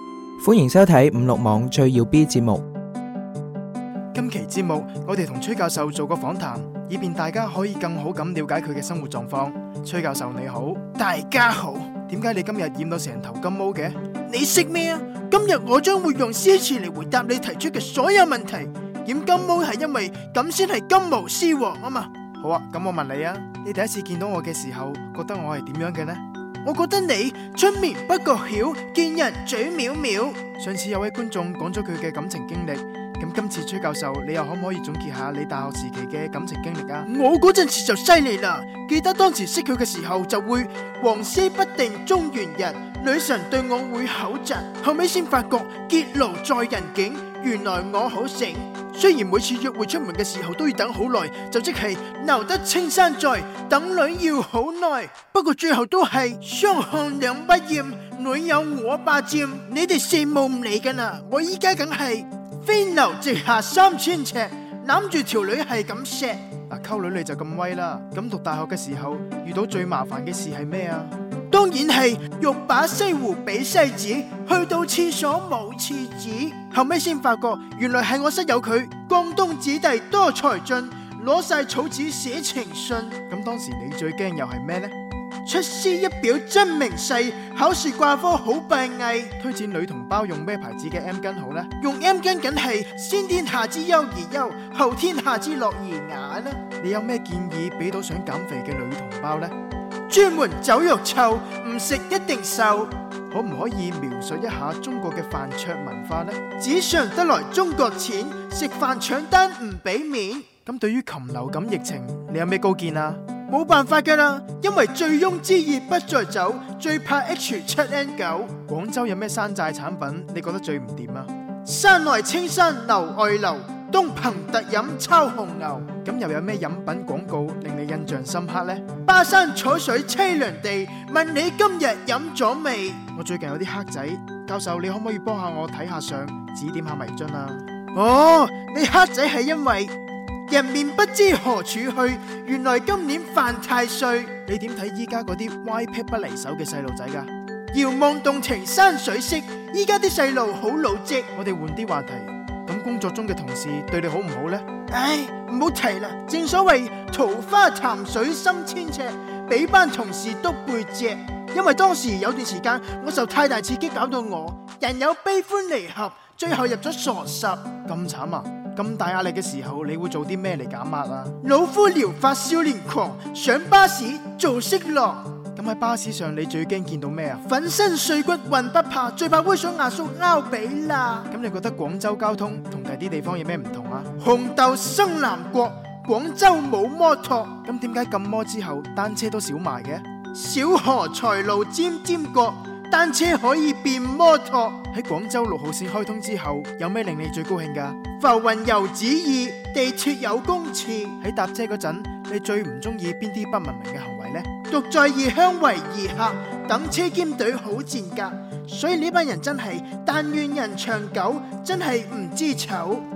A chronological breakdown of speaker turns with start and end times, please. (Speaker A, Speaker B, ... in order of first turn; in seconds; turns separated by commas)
Speaker A: 0.4-2.6, Speaker B: 4.2-10.9, Speaker C: 10.8-12.1, Speaker B: 12.1-14.0, Speaker C: 14.2-22.1, Speaker B: 22.4-26.2, Speaker C: 26.6-30.6, Speaker B: 30.6-37.1, Speaker C: 37.0-66.6, Speaker B: 66.7-71.1, Speaker C: 71.5-83.3, Speaker B: 83.3-84.9, Speaker C: 85.5-89.4, Speaker B: 89.4-91.7, Speaker C: 91.7-96.7, Speaker B: 96.8-99.5, Speaker C: 100.1-102.9, Speaker B: 103.3-106.4, Speaker C: 106.5-110.6, Speaker B: 110.7-113.2, Speaker C: 113.4-118.7, Speaker B: 118.7-121.3, Speaker C: 121.7-126.0, Speaker B: 125.9-128.9, Speaker C: 128.9-133.1, Speaker B: 133.2-137.7, Speaker C: 137.9-139.9, Speaker C: 140.5-144.5, Speaker B: 144.5-147.3, Speaker C: 147.7-151.3, Speaker B: 151.3-154.7, Speaker C: 154.9-167.8, Speaker B: 167.8-171.3, Speaker C: 171.4-175.4, Speaker B: 175.6-177.4, Speaker C: 177.4-181.3, Speaker B: 181.3-184.1, Speaker C: 184.1-187.6, Speaker B: 187.7-190.0, Speaker C: 190.3-194.9, Speaker B: 194.9-198.0, Speaker C: 198.1-201.2, Speaker B: 201.2-204.5, Speaker C: 204.6-213.1